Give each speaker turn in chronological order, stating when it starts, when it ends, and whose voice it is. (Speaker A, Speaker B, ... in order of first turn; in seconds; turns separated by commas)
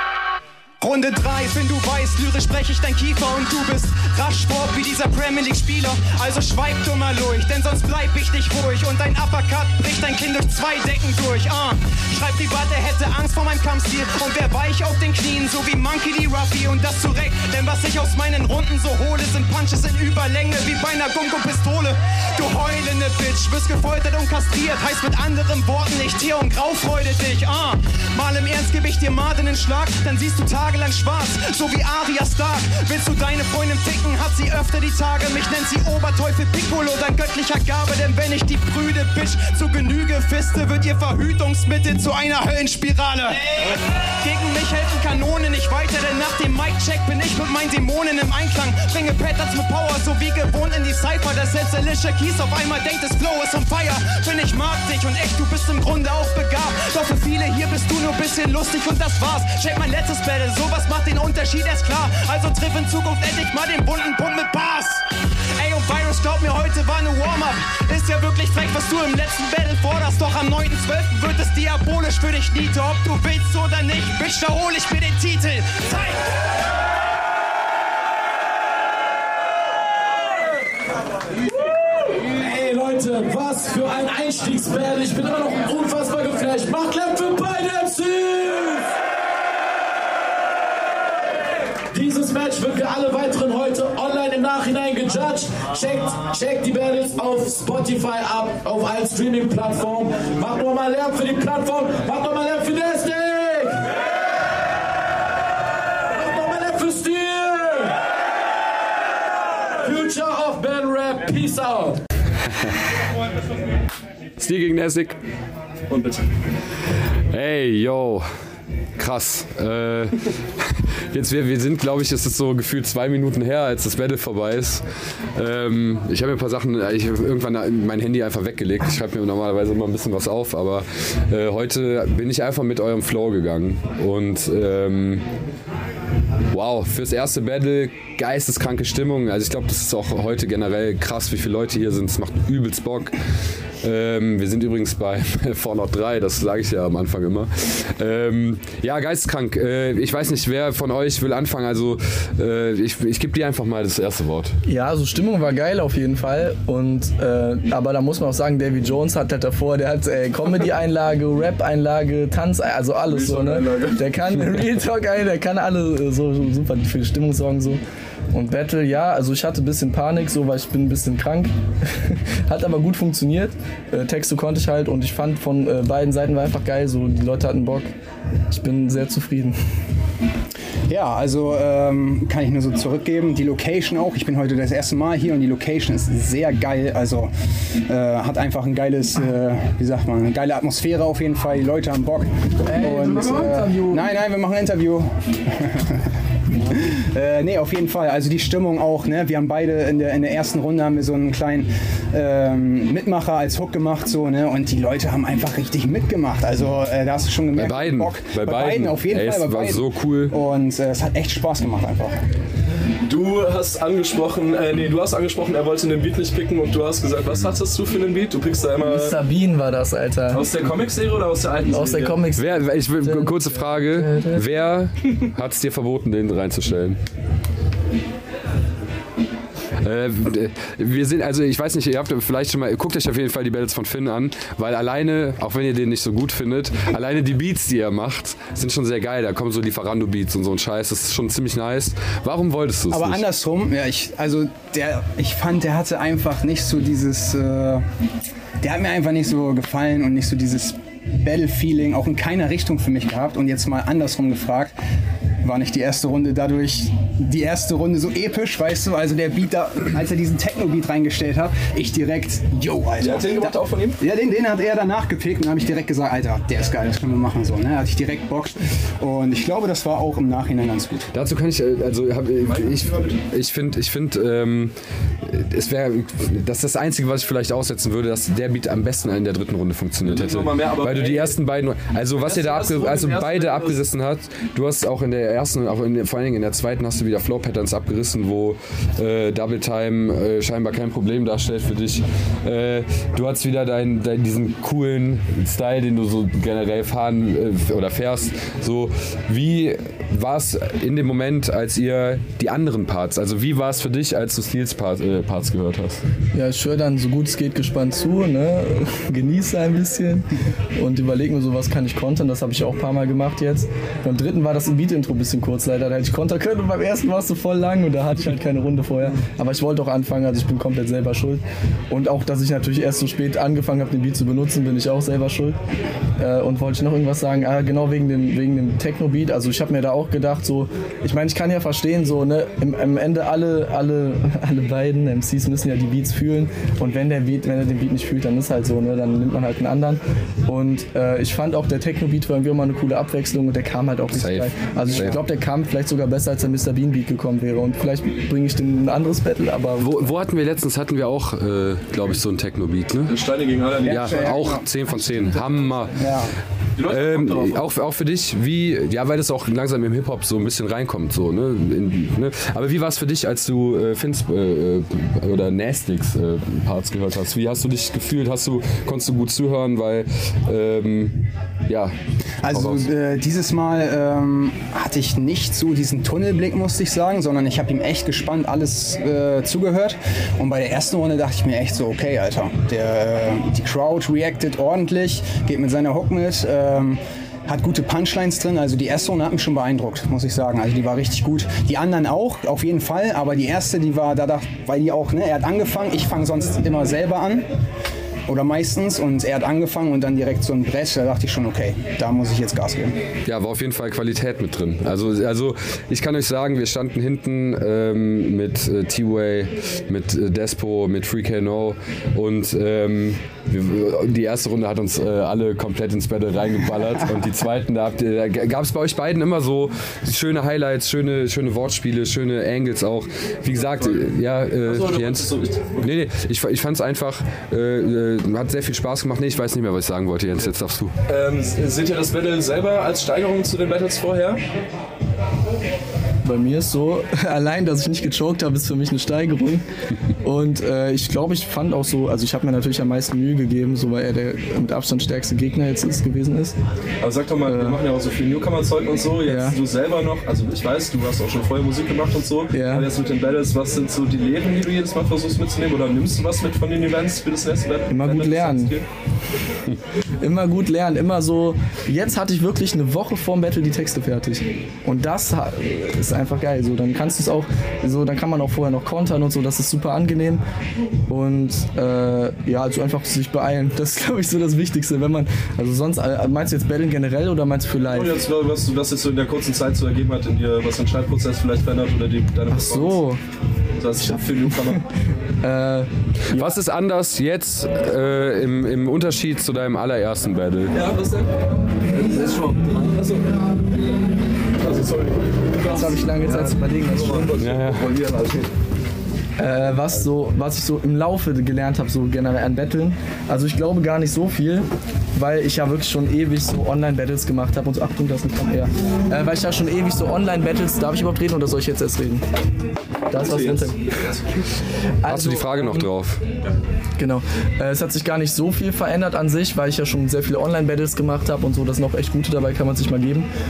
Speaker A: 0.8-43.5, Speaker A: 44.2-76.4, Speaker B: 82.2-89.0, Speaker B: 91.9-104.0, Speaker B: 106.1-108.0, Speaker B: 109.8-112.0, Speaker C: 114.4-115.2, Speaker D: 115.9-116.2, Speaker C: 117.3-118.3, Speaker C: 119.0-124.8, Speaker C: 125.4-135.2, Speaker C: 136.5-143.2, Speaker C: 143.8-154.6, Speaker E: 154.7-167.8, Speaker D: 163.1-164.1, Speaker E: 168.3-177.9, Speaker E: 178.5-179.6, Speaker A: 180.9-187.3, Speaker A: 187.9-196.1, Speaker E: 192.7-194.0, Speaker A: 196.7-212.3, Speaker C: 207.6-210.4, Speaker D: 213.0-219.2, Speaker E: 218.8-220.6, Speaker D: 220.3-222.3, Speaker E: 221.7-224.5, Speaker C: 222.4-227.0, Speaker C: 229.8-243.2, Speaker A: 242.9-247.8, Speaker A: 248.6-254.8, Speaker A: 255.4-271.1, Speaker D: 263.0-264.0, Speaker C: 271.1-306.0, Speaker D: 272.4-273.2, Speaker D: 280.0-281.4, Speaker D: 282.2-283.8, Speaker E: 306.3-325.6, Speaker E: 326.2-349.9, Speaker C: 344.1-345.2, Speaker C: 349.8-353.1, Speaker D: 353.1-354.3, Speaker A: 353.8-355.3, Speaker C: 353.8-356.2, Speaker A: 355.9-356.3, Speaker D: 356.8-357.6, Speaker C: 356.9-372.9, Speaker A: 372.4-397.5, Speaker A: 398.3-403.0, Speaker C: 403.2-430.9, Speaker D: 423.8-424.0, Speaker D: 424.6-425.9, Speaker D: 431.1-434.4, Speaker E: 436.2-439.6, Speaker E: 440.2-446.6, Speaker D: 447.0-458.9, Speaker E: 447.5-447.8, Speaker E: 449.2-449.6, Speaker E: 452.5-452.9, Speaker E: 457.9-458.7, Speaker E: 460.2-470.4, Speaker E: 471.1-478.2, Speaker D: 477.9-483.0, Speaker E: 482.5-483.2, Speaker D: 483.8-484.8, Speaker E: 484.0-484.6, Speaker E: 485.4-486.6, Speaker C: 486.3-490.8, Speaker D: 490.7-491.4, Speaker D: 491.9-493.4, Speaker D: 494.6-498.5, Speaker E: 495.6-497.4, Speaker C: 497.4-497.8, Speaker E: 499.4-512.3, Speaker E: 513.1-513.8, Speaker D: 513.1-514.5, Speaker E: 515.0-515.9, Speaker C: 515.1-516.2, Speaker E: 517.0-523.3